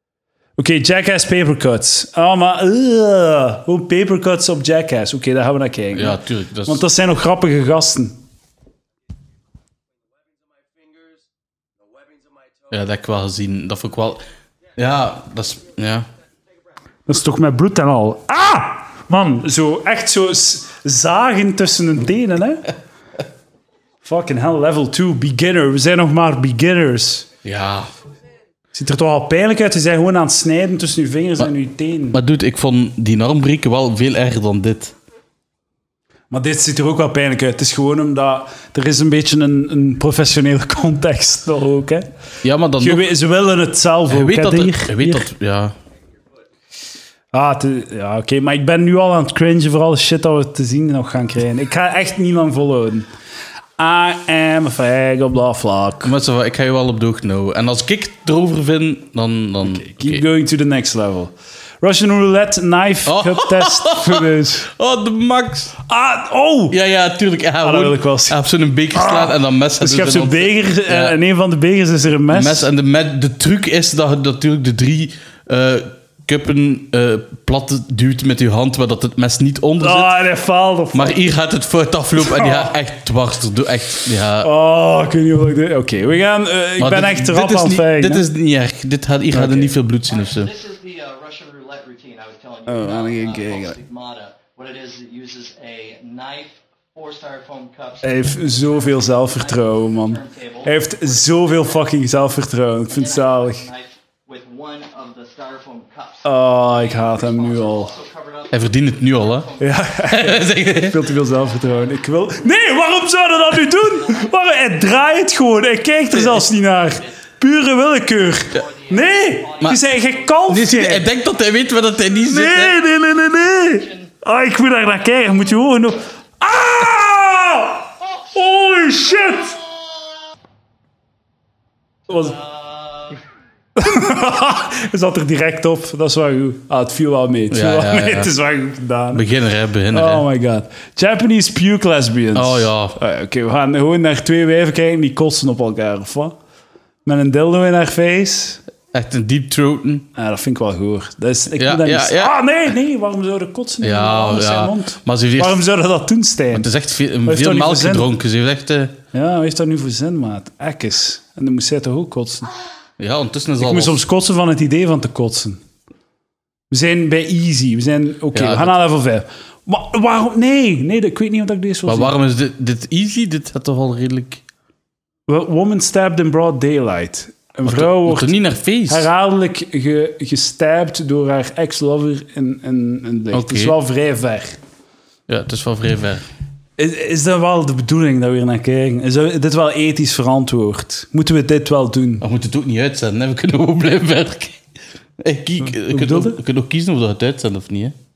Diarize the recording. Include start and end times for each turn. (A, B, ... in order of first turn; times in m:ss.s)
0:00.6-0:08.2 A
0:05.9-0:06.8 B
0:12.7-0:14.2 B
0:14.8-0:16.1 B
0:17.1-0:22.7 A
0:24.0-0:27.3 A
0:27.4-0:27.9 B
0:28.7-0:32.2 A
0:32.1-0:34.9 B
0:36.3-0:42.1 A
0:42.4-0:43.1 B
0:42.8-0:45.3 A
0:44.1-0:45.7 B
0:47.3-0:53.1 A
0:53.8-0:56.1 A
0:56.0-1:00.2 B
0:59.6-1:04.7 A
1:03.0-1:05.7 B
1:05.9-1:06.8 A
1:06.7-1:11.2 B
1:07.6-1:08.4 A
1:08.9-1:12.7 A
1:12.3-1:20.2 B
1:19.8-1:21.2 A
1:20.9-1:24.5 B
1:22.2-1:22.7 A
1:24.4-1:28.2 A
1:26.8-1:30.5 B
1:29.3-1:29.8 A
1:30.1-1:42.0 C
1:32.7-1:33.8 A
1:38.0-1:43.6 A
1:42.9-1:52.6 C
1:46.2-1:47.9 A
1:48.5-1:49.5 B
1:49.6-2:01.1 A
1:50.1-1:51.0 B
1:53.8-1:54.8 C
1:58.5-2:00.5 C
2:00.5-2:02.8 B
2:02.3-2:09.6 A
2:12.1-2:12.4 A
2:12.1-2:13.2 C
2:13.8-2:19.2 A
2:17.5-2:18.3 B
2:19.1-2:20.2 B
2:19.9-2:26.4 A
2:22.3-2:23.0 B
2:27.1-2:28.6 A
2:28.9-2:30.1 B
2:30.2-2:36.7 A
2:31.6-2:32.4 B
2:33.8-2:35.6 B
2:36.5-2:39.0 B
2:37.2-2:38.1 A
2:39.1-2:42.5 A
2:43.0-2:44.0 B
2:43.6-2:45.6 A
2:46.7-2:52.1 A
2:48.3-2:48.8 B
2:51.9-2:54.4 B
2:55.3-2:58.3 A
2:57.6-2:59.1 B
2:58.9-3:04.6 A
3:03.3-3:03.8 B
3:05.3-3:06.2 B
3:06.8-3:12.2 A
3:12.2-3:14.6 B
3:15.2-3:18.0 B
3:15.6-3:16.4 A